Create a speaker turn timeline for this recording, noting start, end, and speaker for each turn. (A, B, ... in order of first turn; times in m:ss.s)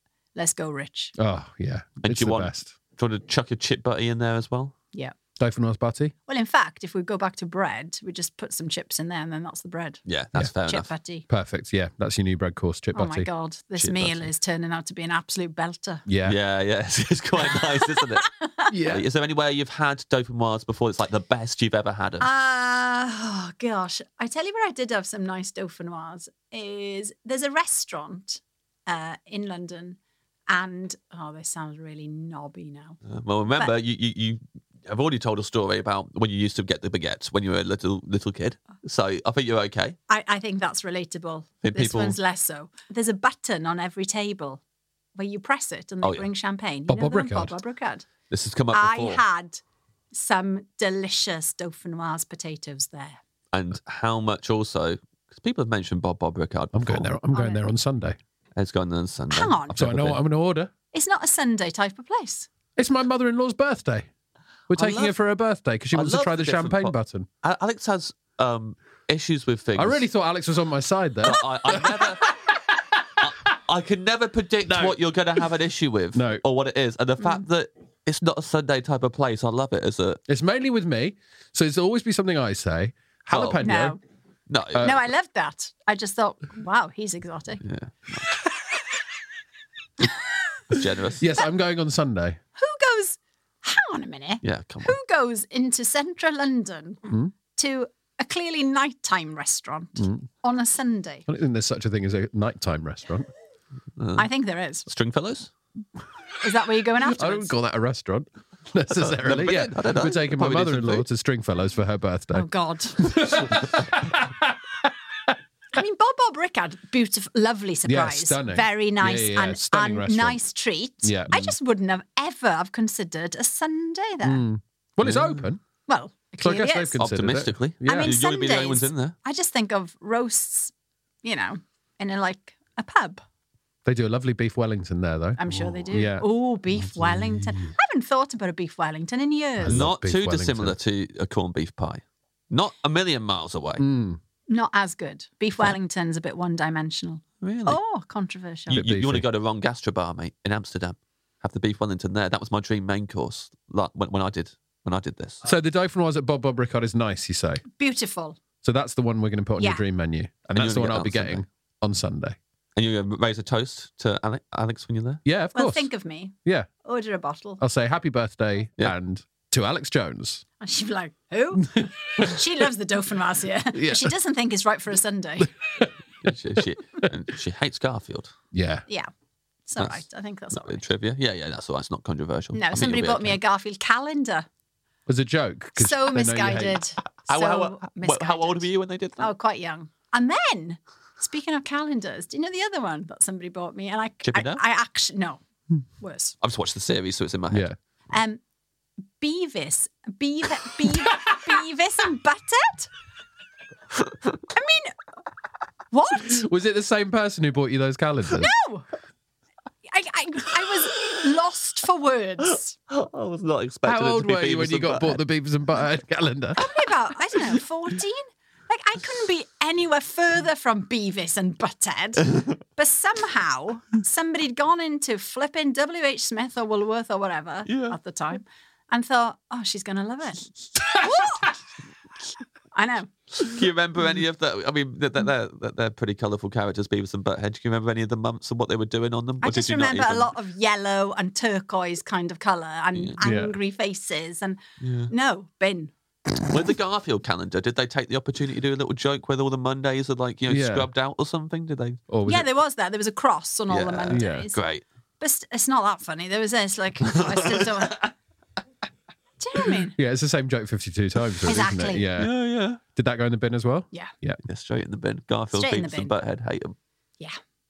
0:00.4-0:01.1 A
0:01.2-0:02.7 B
0:02.0-0:04.7 C
0:05.4-0:06.1 B
0:06.3-0:10.0 A
0:10.1-0:10.9 C
0:10.7-0:11.3 A
0:11.3-0:13.3 B
0:12.9-0:16.0 A
0:13.8-0:14.3 C
0:16.1-0:16.4 B
0:16.2-0:18.3 C
0:18.2-0:18.7 A
0:18.7-0:19.0 B
0:18.9-0:22.3 C
0:22.2-0:30.0 A
0:30.5-0:33.0 A
0:33.0-0:40.0 C
0:40.1-0:44.6 A
0:41.6-0:42.2 C
0:45.2-0:48.1 A
0:46.9-0:47.6 B
0:48.3-0:49.2 C
0:48.7-0:53.2 A
0:53.5-0:57.1 C
0:56.7-0:58.2 B
0:57.3-0:57.6 A
0:58.6-1:00.2 C
0:59.3-0:59.8 A
0:59.8-1:00.7 B
1:00.9-1:02.5 A
1:02.8-1:04.1 B
1:04.7-1:07.3 B
1:04.8-1:05.1 C
1:05.9-1:10.1 C
1:09.8-1:12.8 B
1:11.2-1:12.3 C
1:13.2-1:20.2 C
1:14.7-1:15.0 B
1:16.1-1:16.4 B
1:17.2-1:17.4 A
1:20.3-1:24.0 B
1:23.3-1:23.6 C
1:23.6-1:24.0 A
1:24.5-1:24.9 C
1:24.7-1:25.0 B
1:24.8-1:27.6 A
1:27.6-1:28.3 C
1:30.7-1:31.2 C
1:31.2-1:32.4 B
1:32.6-1:37.0 A
1:34.4-1:35.0 C
1:37.6-1:41.2 A
1:40.0-1:40.3 B
1:41.3-1:43.3 B
1:44.0-1:44.3 C
1:44.2-1:44.9 A
1:44.9-1:45.5 C
1:46.4-1:47.5 A
1:47.0-1:55.4 B
1:48.9-1:51.1 C
1:52.3-1:53.3 A
1:55.7-2:04.4 A
1:57.9-2:00.4 B
2:01.0-2:01.6 B
2:04.2-2:05.6 B
2:05.0-2:05.4 C
2:05.9-2:07.0 A
2:06.4-2:08.2 B
2:07.0-2:09.2 C
2:07.8-2:13.2 A
2:13.8-2:16.3 B
2:15.4-2:19.9 A
2:17.0-2:17.4 B
2:19.6-2:20.8 B
2:19.6-2:23.8 C
2:23.8-2:24.2 B
2:24.5-2:28.8 A
2:27.4-2:27.8 C
2:28.7-2:35.4 C
2:28.7-2:29.2 B
2:35.4-2:37.6 B
2:37.8-2:38.4 A
2:38.6-2:42.4 B
2:39.6-2:39.8 A
2:40.6-2:41.4 C
2:42.8-2:45.2 C
2:45.2-2:45.9 B
2:45.5-2:47.6 A
2:46.4-2:46.7 B
2:47.6-2:50.4 B
2:50.6-2:55.5 A
2:51.6-2:52.3 B
2:53.7-2:54.2 B
2:55.6-2:55.9 B
2:56.2-2:58.3 C
2:58.5-2:58.9 B
2:59.7-3:00.8 A
3:00.5-3:03.4 C
3:02.5-3:04.5 A
3:05.1-3:06.8 B
3:05.8-3:08.7 A
3:07.3-3:09.3 C
3:09.2-3:15.4 A
3:14.2-3:14.6 C
3:16.0-3:16.4 A
3:16.4-3:17.7 C
3:17.5-3:17.8 B
3:18.1-3:18.4 A
3:19.2-3:22.9 A
3:24.5-3:25.0 A
3:25.9-3:26.4 A
3:26.3-3:28.5 B
3:28.4-3:28.9 A
3:29.9-3:32.8 A
3:32.9-3:35.2 C
3:33.9-3:36.6 B
3:36.6-3:51.6 A
3:47.7-3:48.0 C
3:52.7-3:53.5 A
3:53.4-4:00.3 C
3:59.4-4:05.9 A
4:03.2-4:03.6 B
4:04.8-4:05.1 C
4:06.5-4:12.0 C
4:10.5-4:10.9 B
4:12.1-4:12.5 B
4:12.3-4:14.6 A
4:13.7-4:14.8 C
4:14.1-4:14.5 B
4:15.2-4:18.0 A
4:17.0-4:18.1 C
4:19.4-4:20.0 A
4:20.0-4:24.4 B
4:21.5-4:22.1 A
4:22.2-4:22.8 C
4:24.4-4:26.8 C
4:25.5-4:26.1 A